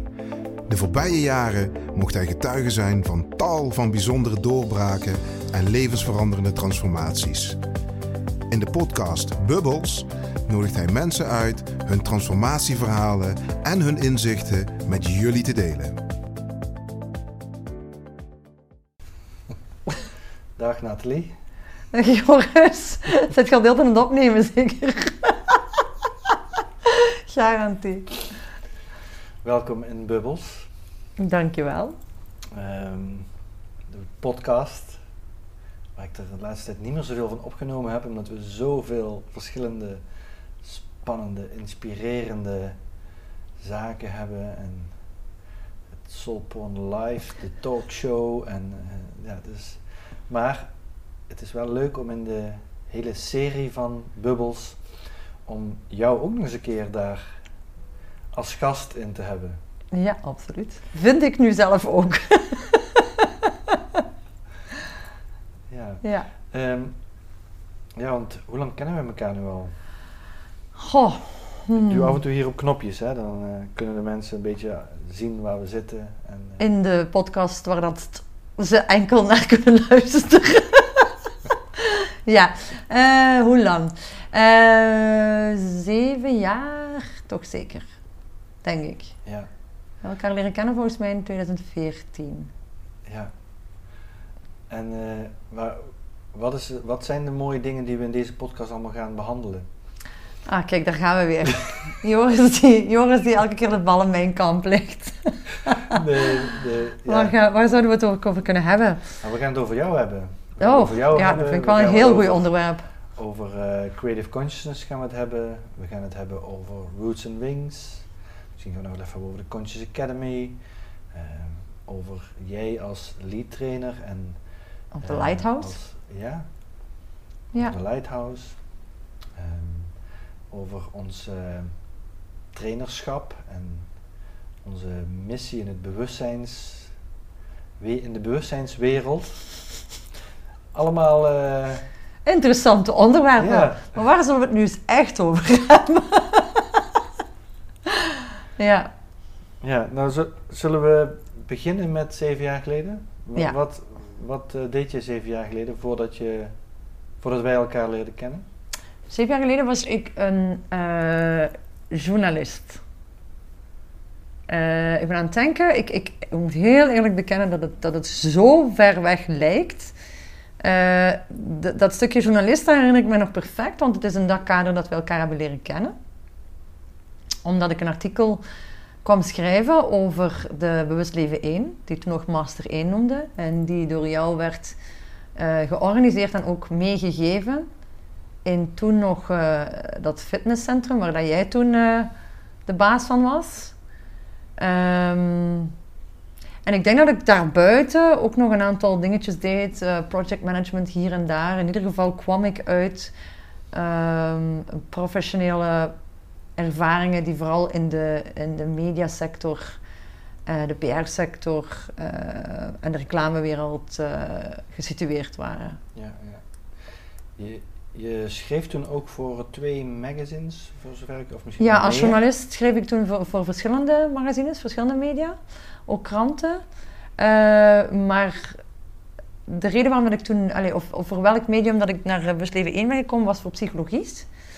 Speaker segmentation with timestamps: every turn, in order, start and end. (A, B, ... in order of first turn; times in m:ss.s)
0:00.7-0:07.6 A
0:08.5-0:16.0 A
0:20.6-0:21.3 B
0:21.9-0:25.8 C
0:26.8-0:28.2 C
0:29.4-0:30.7 B
0:31.2-0:32.0 C
0:32.5-0:33.3 B
0:33.9-0:35.0 B
0:36.0-0:40.0 B
0:40.6-0:42.8 B
0:43.6-0:45.0 B
0:46.0-0:50.7 B
0:51.3-0:54.8 B
0:55.4-0:57.3 B
0:58.3-0:59.6 B
0:59.9-1:03.8 C
1:05.7-1:07.0 B
1:06.0-1:06.3 C
1:08.0-1:09.7 B
1:10.8-1:12.1 C
1:11.7-1:16.6 B
1:16.6-1:21.1 C
1:21.8-1:27.9 C
1:28.6-1:29.1 C
1:30.0-1:32.5 C
1:33.0-1:33.3 B
1:34.7-1:39.6 B
1:40.4-1:46.0 C
1:45.9-1:47.3 B
1:47.0-1:49.1 C
1:49.2-1:52.5 B
1:50.6-1:52.8 C
1:53.2-2:00.6 B
2:01.1-2:04.4 B
2:04.9-2:05.8 C
2:05.0-2:06.5 B
2:07.6-2:08.6 B
2:09.3-2:10.0 B
2:10.5-2:11.7 B
2:12.5-2:13.9 B
2:14.6-2:16.9 B
2:17.8-2:19.4 B
2:20.7-2:21.8 B
2:22.2-2:26.8 C
2:23.4-2:23.9 B
2:28.0-2:28.9 C
2:29.6-2:36.5 B
2:37.2-2:38.4 B
2:39.1-2:42.8 C
2:44.5-2:49.9 C
2:50.6-2:55.9 C
2:57.4-2:58.4 C
2:59.0-3:04.8 C
3:05.4-3:07.7 C
3:08.4-3:12.1 C
3:12.6-3:13.7 C
3:14.6-3:15.7 C
3:16.6-3:23.1 C
3:23.7-3:25.9 C
3:26.6-3:29.8 C
3:30.5-3:35.8 C
3:35.9-3:42.2 B
3:41.6-3:45.4 C
3:45.9-3:46.6 C
3:47.2-3:48.6 C
3:49.5-3:54.3 C